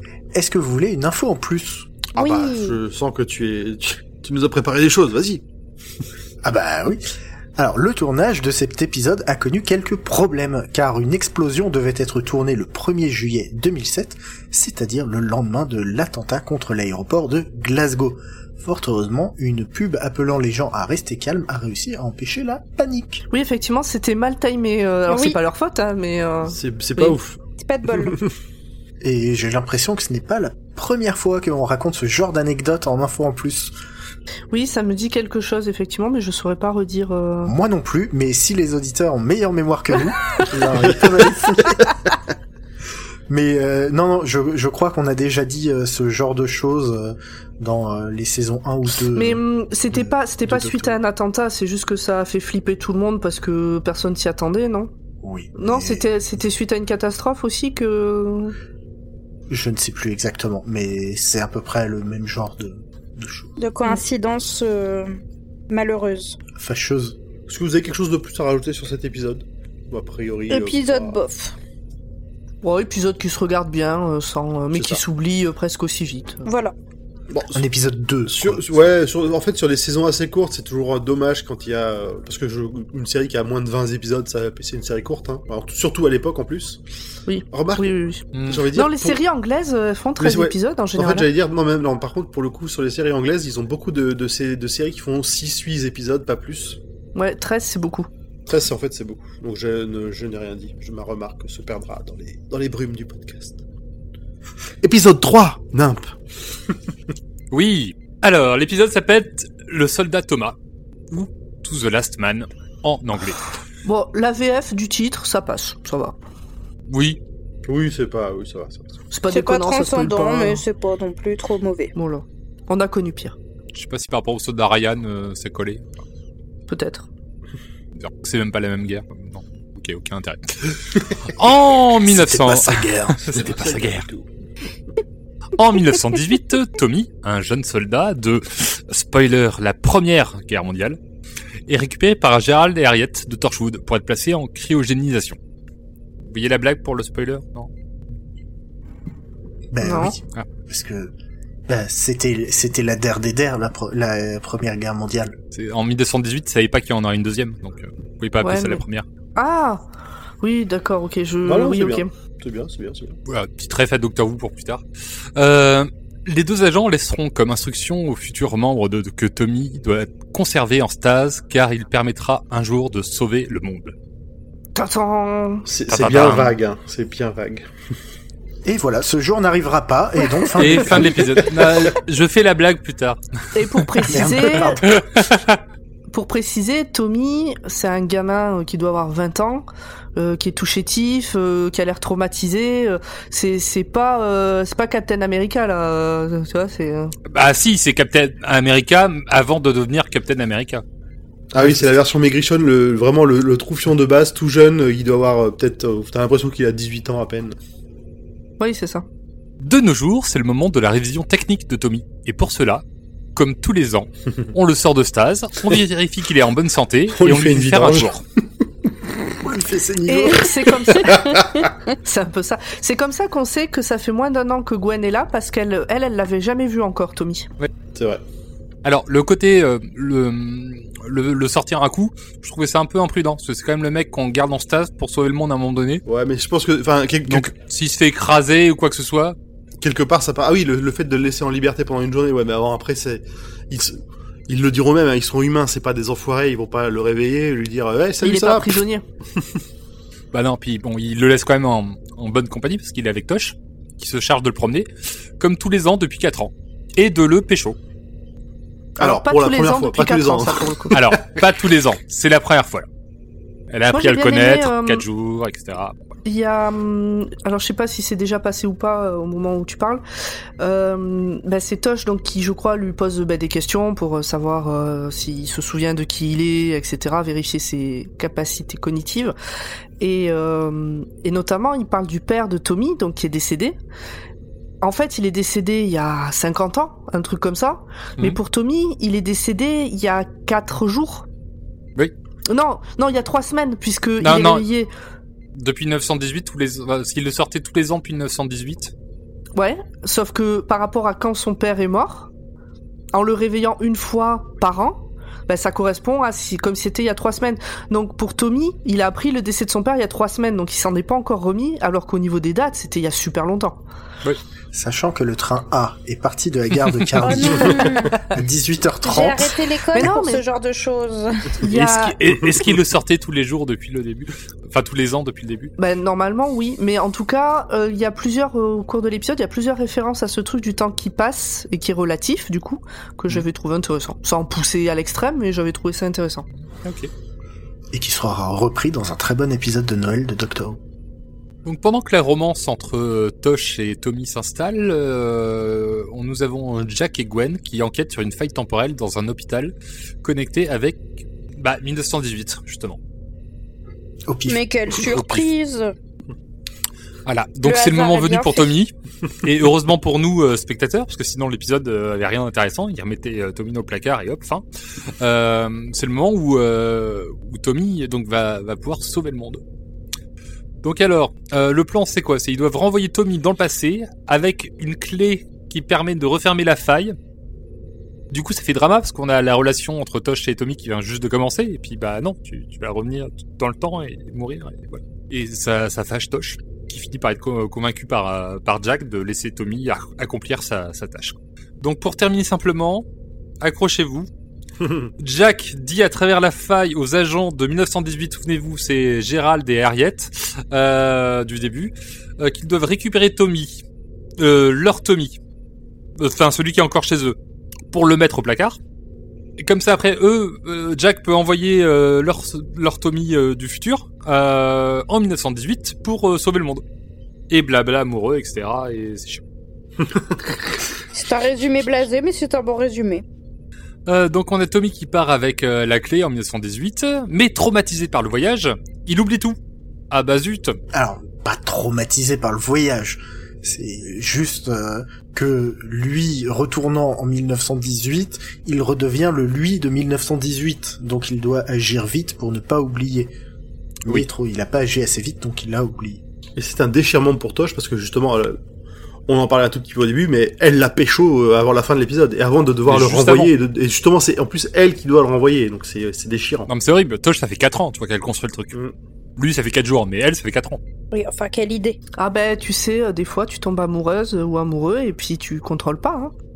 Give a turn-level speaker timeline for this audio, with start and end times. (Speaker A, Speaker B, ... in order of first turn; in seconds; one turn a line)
Speaker A: 0.3-2.0
Speaker B: 2.1-2.8
Speaker C: 2.2-5.4
Speaker A: 6.4-7.0
Speaker A: 7.6-23.2
Speaker D: 23.3-27.2
Speaker B: 25.1-25.4
Speaker C: 26.5-27.4
Speaker B: 27.6-28.2
Speaker C: 27.9-28.3
Speaker A: 29.0-33.7
Speaker D: 34.5-37.5
Speaker A: 37.5-41.8
Speaker A: 43.3-51.0
Speaker D: 49.1-54.9
Speaker A: 55.2-56.1
Speaker D: 55.6-58.6
Speaker A: 59.5-63.5
Speaker B: 63.6-66.4
Speaker A: 66.6-67.2
Speaker C: 67.5-71.2
Speaker B: 70.5-71.5
Speaker D: 72.6-76.5
Speaker C: 74.7-75.0
Speaker B: 76.5-76.7
Speaker C: 77.3-77.6
Speaker A: 77.5-78.6
Speaker C: 78.3-86.8
Speaker D: 87.3-91.3
Speaker C: 87.5-89.2
Speaker E: 88.3-88.7
Speaker C: 90.2-96.8
Speaker D: 97.2-98.1
Speaker C: 98.5-103.6
Speaker C: 104.8-106.2
Speaker E: 107.5-110.6
Speaker E: 111.1-113.4
Speaker D: 113.8-116.2
Speaker E: 116.9-117.2
Speaker C: 117.7-119.0
Speaker D: 119.1-120.6
Speaker B: 119.3-121.9
Speaker D: 122.0-123.3
Speaker E: 123.7-125.9
Speaker D: 126.7-127.1
Speaker E: 128.0-134.1
Speaker A: 132.1-133.8
Speaker C: 133.4-134.2
Speaker E: 135.6-141.0
Speaker E: 141.7-145.4
Speaker E: 146.2-147.7
Speaker A: 149.7-151.1
Speaker D: 149.8-150.2
Speaker A: 151.7-155.4
Speaker E: 155.5-159.1
Speaker D: 158.4-158.8
Speaker D: 159.4-159.8
Speaker D: 160.4-162.1
Speaker C: 161.5-163.2
Speaker E: 163.3-164.8
Speaker E: 165.4-173.9
Speaker D: 174.8-175.7
Speaker C: 175.7-177.7
Speaker E: 175.9-176.6
Speaker A: 178.7-181.2
Speaker E: 180.6-183.2
Speaker C: 181.4-181.9
Speaker D: 183.5-184.8
Speaker E: 183.8-184.1
Speaker A: 184.1-185.0
Speaker E: 184.8-185.6
Speaker D: 186.1-197.2
Speaker E: 197.3-200.8
Speaker C: 201.5-207.6
Speaker D: 208.6-209.1
Speaker E: 209.6-212.8
Speaker E: 213.3-218.2
Speaker C: 217.2-218.1
Speaker A: 219.4-220.6
Speaker D: 220.1-227.5
Speaker C: 220.9-221.7
Speaker C: 227.9-228.2
Speaker E: 228.8-236.0
Speaker C: 236.1-237.5
Speaker E: 237.3-239.4
Speaker C: 239.8-248.8
Speaker D: 248.2-249.0
Speaker E: 250.3-257.8
Speaker D: 259.0-261.0
Speaker C: 259.0-261.2
Speaker E: 260.9-262.9
Speaker E: 263.7-266.0
Speaker D: 263.9-265.1
Speaker D: 266.2-270.0
Speaker D: 270.6-279.4
Speaker D: 280.0-283.8
Speaker D: 284.8-291.3
Speaker D: 292.5-294.9
Speaker E: 294.2-294.7
Speaker E: 295.5-298.9
Speaker D: 299.6-302.3
Speaker D: 303.1-313.8
Speaker A: 314.7-319.5
Speaker B: 317.2-318.2
Speaker B: 319.0-321.6
Speaker D: 319.9-320.4
Speaker D: 321.6-322.2
Speaker E: 321.6-325.7
Speaker D: 325.8-336.5
Speaker E: 336.8-337.1
Speaker A: 337.9-340.8
Speaker E: 341.6-351.1
Speaker E: 351.6-353.0
Speaker A: 354.3-355.4
Speaker B: 354.5-355.9
Speaker E: 357.3-358.9
Speaker B: 357.6-358.7
Speaker E: 359.4-364.6
Speaker E: 365.2-369.6
Speaker E: 370.8-377.2
Speaker E: 378.3-393.1
Speaker E: 393.6-394.3
Speaker C: 394.8-395.1
Speaker E: 395.2-403.8
Speaker E: 404.4-405.4
Speaker E: 406.2-407.4
Speaker E: 407.9-408.8
Speaker E: 409.6-416.8
Speaker E: 417.5-419.4
Speaker B: 421.1-423.2
Speaker E: 424.1-429.6
Speaker E: 430.1-430.8
Speaker A: 430.9-443.3
Speaker A: 444.1-446.2
Speaker C: 446.6-448.6
Speaker C: 449.3-456.7
Speaker E: 452.9-453.5
Speaker E: 456.7-458.8
Speaker E: 459.4-460.8
Speaker B: 461.1-462.0
Speaker D: 462.2-466.3